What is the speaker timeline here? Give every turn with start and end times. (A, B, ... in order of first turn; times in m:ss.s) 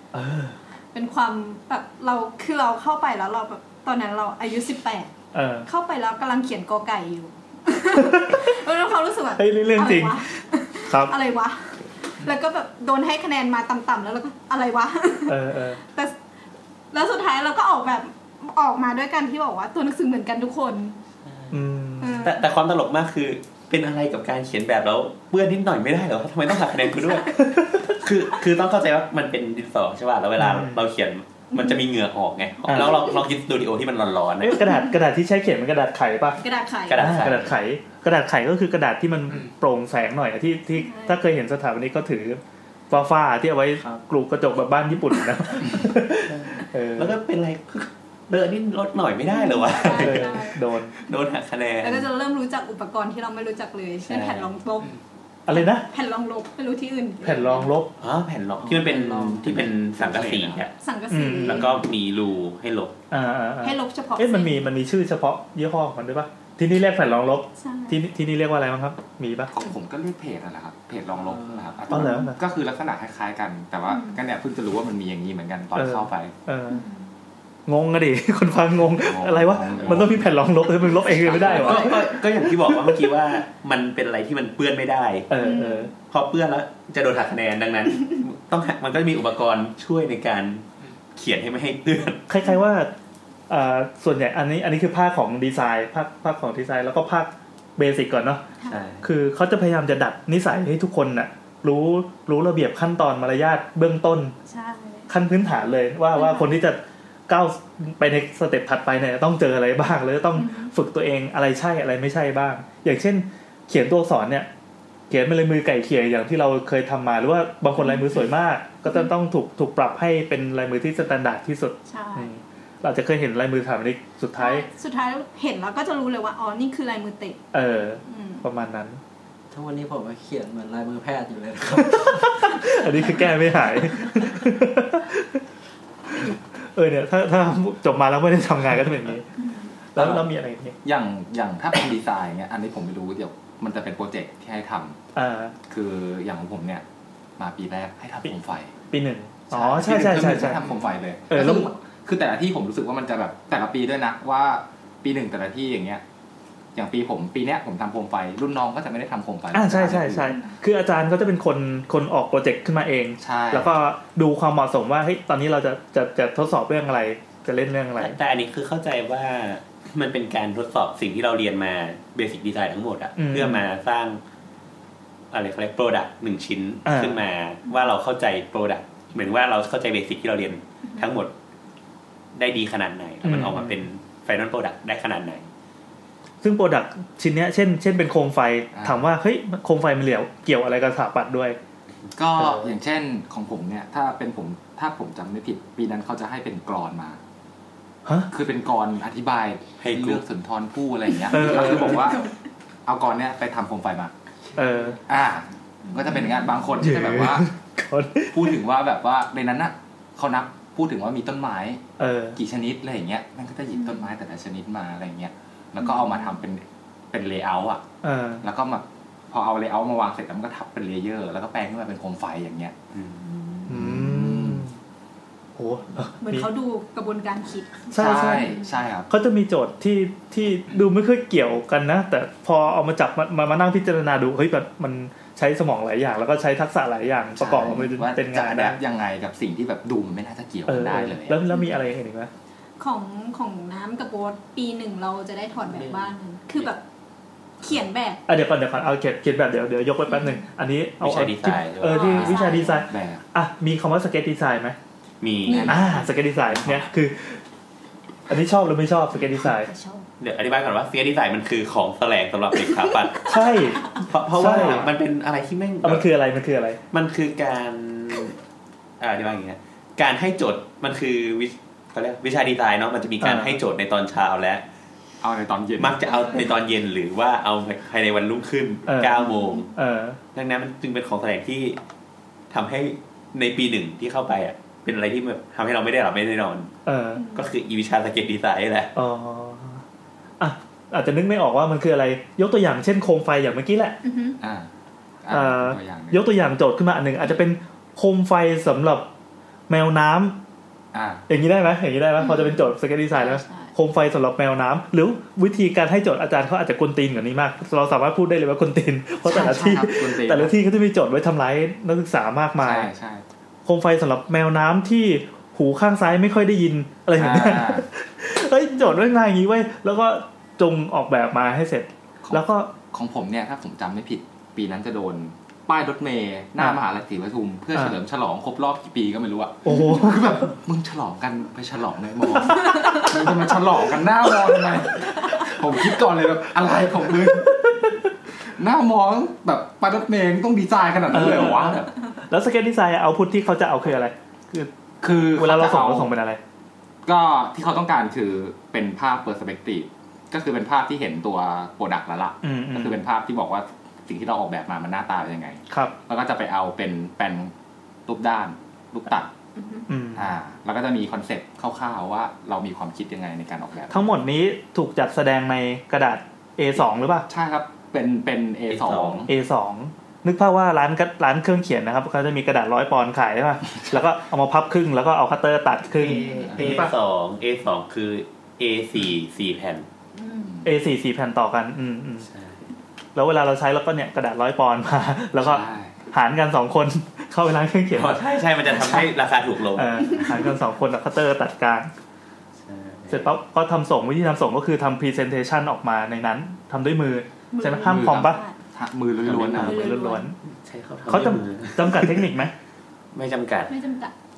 0:00.1-0:00.6 A
0:00.9-0:05.1 B
0:05.3-0:05.7 A
0:05.6-0:16.2 B
0:08.0-0:08.5 A
0:09.3-0:10.2 A
0:10.9-0:11.1 A
0:15.3-0:15.8 A
0:16.9-0:21.0 B
0:21.3-0:21.6 C
0:21.5-0:22.3 A
0:22.0-0:22.4 B
0:22.2-0:34.6 C
0:27.0-0:27.4 B
0:27.4-0:27.9 A
0:30.4-0:30.9 A
0:31.5-0:31.8 B
0:32.7-0:33.0 A
0:32.7-0:33.2 B
0:34.4-0:36.4 A
0:36.4-0:37.2 B
0:36.9-0:37.6 C
0:36.9-0:47.2 A
0:40.7-0:41.2 B
0:46.3-0:52.1 C
0:49.3-0:50.6 B
0:49.9-0:50.9 A
0:51.8-0:54.9 B
0:54.0-0:54.5 C
0:55.5-0:55.8 A
0:55.5-0:57.7 B
0:57.2-0:57.9 A
0:58.0-1:00.7 C
0:58.6-0:59.6 D
0:59.4-1:00.6 E
1:00.8-1:01.8 B
1:01.1-1:01.7 A
1:01.4-1:03.0 C
1:03.1-1:09.5 A
1:03.6-1:04.6 B
1:07.6-1:08.0 B
1:09.5-1:16.3 E
1:11.1-1:11.8 D
1:11.9-1:12.4 A
1:12.0-1:12.2 B
1:13.9-1:14.2 B
1:15.7-1:16.8 A
1:16.7-1:17.1 B
1:17.6-1:23.1 A
1:18.9-1:20.2 E
1:19.6-1:20.0 C
1:21.2-1:21.7 E
1:21.2-1:25.3 C
1:21.6-1:21.9 B
1:25.3-1:25.9 A
1:25.4-1:25.9 B
1:26.1-1:32.3 C
1:32.3-1:32.9 A
1:33.5-1:38.5 A
1:38.6-1:38.8 B
1:38.7-1:39.1 C
1:39.0-1:44.3 A
1:44.4-1:45.1 B
1:45.1-1:54.5 A
1:46.1-1:46.6 B
1:50.3-1:50.7 B
1:55.1-2:04.7 A
1:57.8-1:58.1 B
2:01.8-2:02.3 B
2:04.4-2:07.4 B
2:07.5-2:09.0 A
2:08.0-2:08.4 B
2:09.5-2:12.3 D
2:11.7-2:15.4 A
2:16.1-2:19.3 A
2:19.4-2:19.8 B
2:19.9-2:20.8 A
2:20.0-2:20.2 E
2:20.8-2:25.0 E
2:25.1-2:25.5 A
2:25.7-2:26.8 E
2:27.4-2:28.7 E
2:28.9-2:30.6 A
2:29.5-2:36.0 E
2:31.3-2:31.7 A
2:36.7-2:40.4 E
2:39.5-2:48.2 A
2:43.2-2:43.7 E
2:48.0-2:54.2 C
2:53.2-2:53.6 A
2:55.3-3:01.3 C
2:56.8-2:57.2 A
3:02.3-3:05.5 C
3:03.2-3:03.8 A
3:06.4-3:11.6 A
3:08.7-3:09.0 E
3:12.1-3:17.2 E
3:18.3-3:22.3 E
3:19.8-3:20.2 C
3:21.3-3:22.2 A
3:22.8-3:24.1 E
3:24.5-3:25.0 A
3:25.0-3:27.5 E
3:26.0-3:26.5 B
3:26.8-3:28.6 A
3:28.3-3:31.8 E
3:32.0-3:32.4 A
3:32.4-3:37.8 E
3:33.7-3:34.1 B
3:35.8-3:36.3 B
3:38.0-3:38.4 A
3:38.4-3:42.8 E
3:42.9-3:43.7 C
3:43.7-3:44.8 A
3:43.7-3:44.6 E
3:45.6-3:46.5 A
3:46.2-3:48.4 B
3:47.9-3:48.6 A
3:47.9-3:49.1 E
3:49.1-3:58.8 A
3:57.4-4:01.4 E
4:00.7-4:02.3 A
4:01.5-4:01.8 B
4:02.8-4:06.8 B
4:07.6-4:08.2 B
4:08.3-4:14.8 A
4:10.1-4:10.4 B
4:11.0-4:12.3 C
4:11.8-4:12.8 B
4:12.0-4:13.2 E
4:15.2-4:15.8 C
4:15.4-4:16.0 B
4:15.5-4:16.0 E
4:15.6-4:17.4 A
4:18.3-4:19.7 A
4:19.6-4:20.0 B
4:20.2-4:23.3 C
4:23.3-4:24.9 A
4:23.9-4:26.1 C
4:24.4-4:24.9 E
4:25.8-4:26.8 A
4:26.9-4:28.4 C
4:29.0-4:34.6 C
4:33.2-4:33.6 A
4:35.2-4:36.4 E
4:35.8-4:39.7 C
4:36.1-4:36.5 B
4:38.9-4:40.2 A
4:39.2-4:39.7 B
4:40.3-4:41.8 C
4:42.5-4:46.7 C
4:46.8-4:47.2 A
4:47.1-4:47.5 B
4:47.3-4:48.9 C
4:48.9-4:49.8 A
4:50.4-4:54.0 A
4:54.0-4:54.4 B
4:54.4-4:54.7 E
4:55.2-4:56.2 E
4:55.3-4:59.1 A
4:59.7-5:00.4 A
5:00.9-5:01.2 E
5:01.3-5:12.9 A
5:02.2-5:03.7 B
5:09.2-5:10.5 E
5:12.6-5:13.2 E
5:13.6-5:22.7 A
5:17.2-5:17.8 E
5:22.2-5:41.9 E
5:29.6-5:30.4 A
5:29.7-5:30.0 B
5:32.5-5:33.3 B
5:41.1-5:46.4 A
5:45.0-5:46.1 E
5:47.0-5:57.5 E
5:52.4-5:53.0 A
5:55.7-5:55.9 A
5:58.0-5:59.3 E
5:59.6-5:59.9 B
5:59.9-6:00.3 A
6:00.1-6:04.1 E
6:03.9-6:07.3 A
6:07.3-6:09.3 E
6:08.7-6:09.3 C
6:09.3-6:16.3 A
6:16.1-6:16.8 B
6:16.1-6:16.9 E
6:16.3-6:19.9 C
6:20.1-6:20.5 B
6:20.4-6:20.7 E
6:20.6-6:22.3 A
6:22.2-6:22.7 C
6:23.1-6:28.2 A
6:25.4-6:26.0 E
6:27.9-6:30.2 C
6:29.7-6:31.9 A
6:30.1-6:30.5 B
6:32.6-6:33.4 C
6:33.1-6:38.4 A
6:37.5-6:38.6 B
6:37.8-6:39.8 E
6:39.2-6:39.8 C
6:39.6-6:40.4 A
6:39.6-6:40.3 B
6:40.4-6:42.3 C
6:41.1-6:42.5 A
6:43.1-6:43.7 C
6:43.7-6:44.1 B